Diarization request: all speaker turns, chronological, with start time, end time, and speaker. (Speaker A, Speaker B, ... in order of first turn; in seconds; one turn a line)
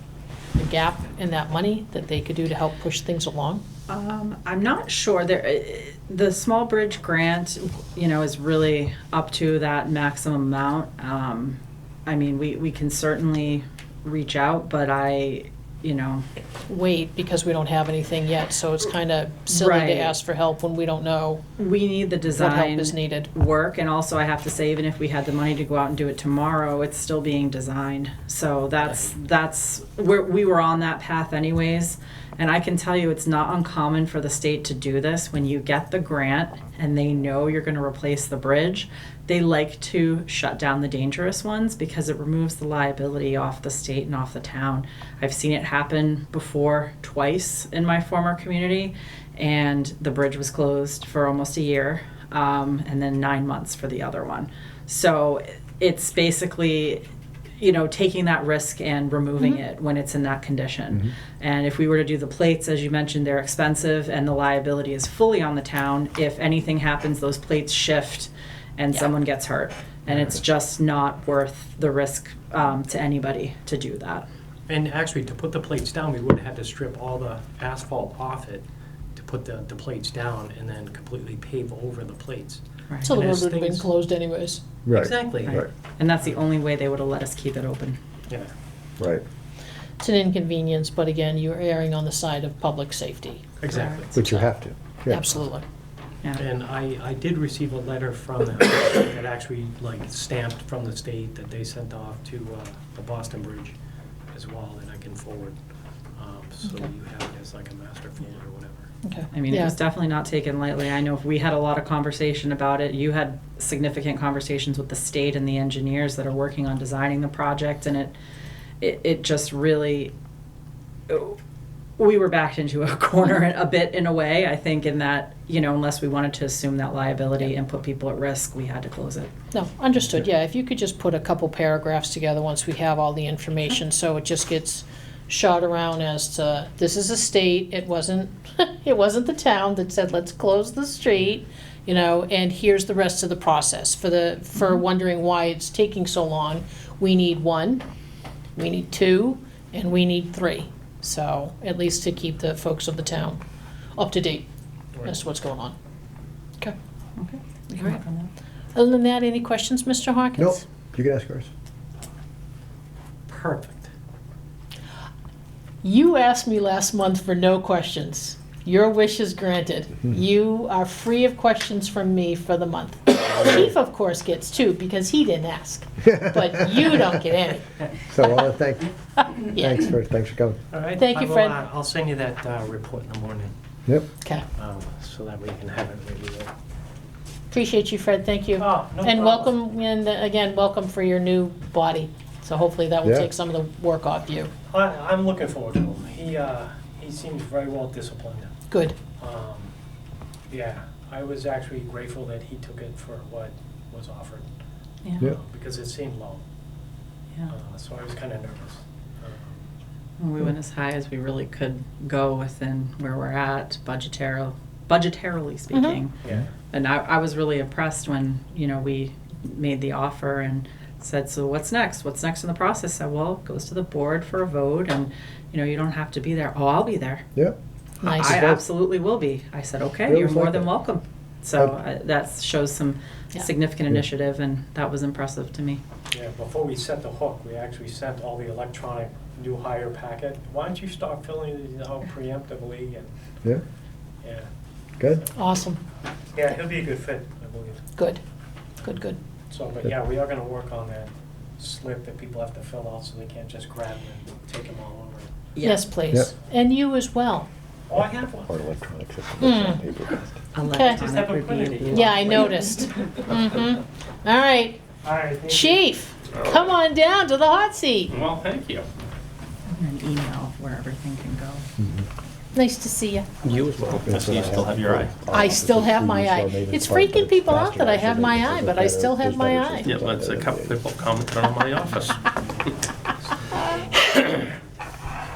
Speaker A: 0.6-3.6
Speaker B: 3.9-16.2
Speaker A: 16.7-21.4
Speaker B: 19.5-20.1
Speaker B: 21.6-57.0
Speaker A: 22.3-23.3
Speaker B: 57.6-74.2
Speaker C: 74.7-78.6
Speaker C: 79.2-83.9
Speaker B: 82.9-83.2
Speaker A: 83.0-84.6
Speaker D: 84.8-85.7
Speaker C: 84.9-85.7
Speaker B: 85.5-88.0
Speaker D: 89.0-89.2
Speaker A: 90.0-93.4
Speaker C: 93.6-94.1
Speaker B: 93.7-94.4
Speaker D: 94.1-95.4
Speaker A: 95.1-95.6
Speaker C: 96.4-103.7
Speaker C: 104.3-105.6
Speaker C: 106.2-108.9
Speaker A: 109.0-109.8
Speaker B: 109.3-118.2
Speaker B: 118.8-120.1
Speaker B: 121.1-121.4
Speaker B: 122.0-129.3
Speaker A: 129.5-147.8
Speaker A: 148.6-153.4
Speaker A: 154.0-154.5
Speaker A: 155.1-155.8
Speaker B: 157.2-158.3
Speaker A: 158.8-160.6
Speaker D: 160.4-161.5
Speaker C: 163.3-163.9
Speaker A: 165.8-177.7
Speaker D: 176.1-177.0
Speaker D: 178.0-178.9
Speaker A: 179.2-179.9
Speaker D: 179.5-180.6
Speaker C: 180.7-183.5
Speaker A: 181.0-181.6
Speaker C: 184.6-186.5
Speaker A: 187.5-194.5
Speaker C: 188.6-189.5
Speaker D: 193.0-193.3
Speaker C: 194.7-198.5
Speaker A: 198.7-199.0
Speaker C: 199.2-199.7
Speaker C: 200.5-204.5
Speaker C: 205.2-206.4
Speaker C: 207.5-209.7
Speaker B: 210.2-216.2
Speaker A: 215.7-216.0
Speaker C: 216.2-216.5
Speaker B: 216.7-227.2
Speaker A: 228.0-228.4
Speaker B: 228.0-235.8
Speaker D: 228.1-228.6
Speaker D: 230.1-230.7
Speaker C: 236.1-243.1
Speaker C: 244.2-244.5
Speaker D: 245.0-245.2
Speaker A: 245.3-245.8
Speaker C: 246.3-247.8
Speaker A: 248.0-248.2
Speaker A: 248.8-249.2
Speaker C: 249.5-255.4
Speaker B: 255.5-255.9
Speaker A: 255.6-257.5
Speaker C: 257.9-258.6
Speaker D: 257.9-260.4
Speaker A: 259.4-259.8
Speaker B: 260.5-262.6
Speaker A: 260.7-261.0
Speaker C: 260.8-262.6
Speaker A: 261.9-264.8
Speaker C: 265.0-265.8
Speaker A: 265.5-268.1
Speaker E: 266.3-266.7
Speaker E: 268.1-268.9
Speaker B: 269.7-271.7
Speaker D: 271.8-272.1
Speaker A: 272.5-273.3
Speaker E: 273.4-275.1
Speaker D: 273.5-280.8
Speaker C: 274.2-274.7
Speaker A: 275.3-279.9
Speaker E: 279.8-282.3
Speaker C: 281.4-284.6
Speaker E: 284.1-284.4